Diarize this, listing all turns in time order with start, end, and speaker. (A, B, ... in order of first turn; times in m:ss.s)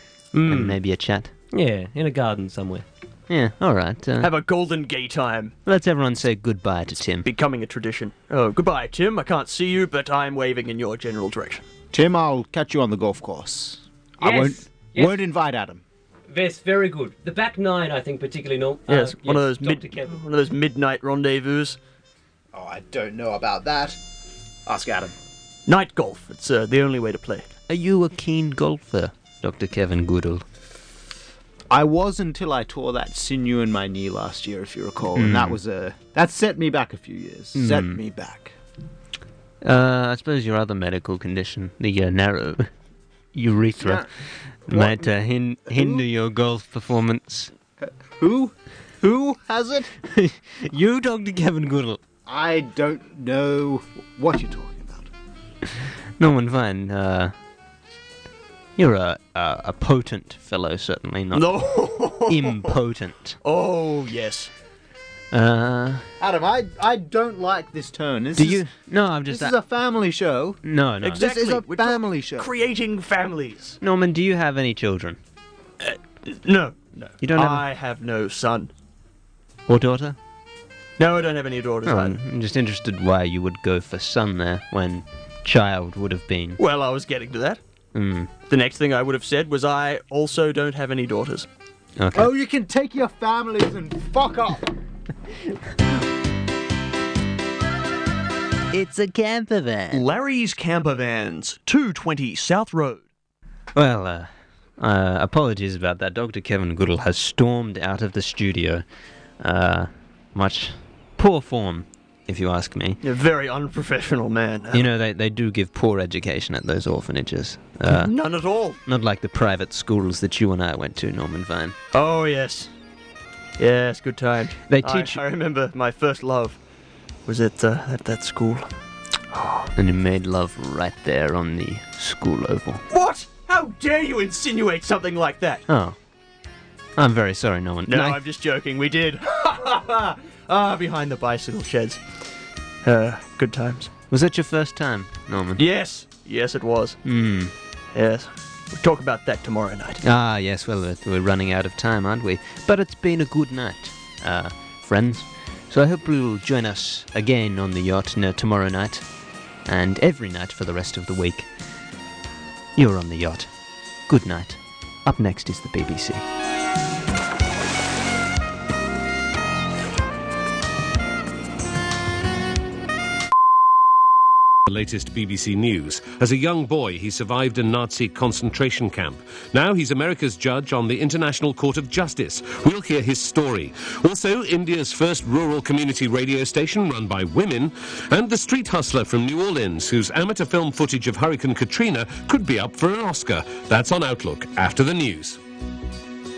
0:00.3-0:00.8 A
0:00.5-0:01.3 B
0:01.5-0:02.8 A
0:03.3-0:04.3 B
0:04.2-0:05.5 C
0:05.7-0:07.3 B
0:07.2-0:11.6 C
0:11.9-0:15.8 D
0:14.2-0:15.2 A
0:16.3-0:20.1 A
0:18.9-0:21.8 C
0:22.5-0:24.0 D
0:24.7-0:25.1 D
0:25.7-0:27.5 C
0:27.7-0:30.4 B
0:31.7-0:38.5 D
0:35.1-0:35.6 B
0:37.5-0:38.0 B
0:39.6-0:42.7 B
0:43.3-0:44.1 B
0:43.8-0:44.1 D
0:44.7-0:47.5 B
0:44.7-0:45.1 D
0:45.7-0:46.0 D
0:47.8-0:49.9 D
0:50.0-0:52.0 B
0:52.3-0:55.1 D
0:56.2-0:57.3 B
0:58.8-1:01.6 B
1:01.3-1:02.8 C
1:02.3-1:03.4 B
1:03.4-1:04.5 C
1:05.3-1:06.1 B
1:06.2-1:08.6 D
1:08.4-1:09.6 B
1:09.3-1:10.6 D
1:10.6-1:11.3 B
1:11.0-1:13.8 C
1:11.1-1:12.5 D
1:13.8-1:15.2 B
1:15.8-1:18.7 C
1:17.2-1:17.7 B
1:19.7-1:20.2 B
1:21.0-1:22.2 C
1:21.8-1:26.6 B
1:26.6-1:27.6 C
1:27.9-1:28.3 B
1:28.5-1:31.5 C
1:32.0-1:32.3 B
1:32.2-1:34.8 D
1:38.7-1:40.0 B
1:39.9-1:43.1 C
1:43.8-1:48.8 B
1:49.4-1:53.0 B
1:53.0-1:54.9 C
1:54.7-1:58.1 B
1:57.9-1:58.8 C
1:58.9-2:01.8 B
2:01.9-2:02.7 C
2:03.6-2:06.6 C
2:04.7-2:05.2 B
2:07.3-2:08.8 C
2:09.3-2:09.7 C
2:09.8-2:12.8 B
2:12.9-2:15.6 C
2:15.7-2:16.0 B
2:17.0-2:18.2 B
2:17.9-2:22.0 C
2:22.8-2:23.9 C
2:24.1-2:25.6 B
2:25.6-2:27.0 C
2:27.0-2:27.5 B
2:27.9-2:30.0 C
2:30.0-2:39.1 B
2:39.7-2:41.5 B
2:42.8-2:43.5 B
2:44.1-2:46.2 B
2:54.7-3:15.4 E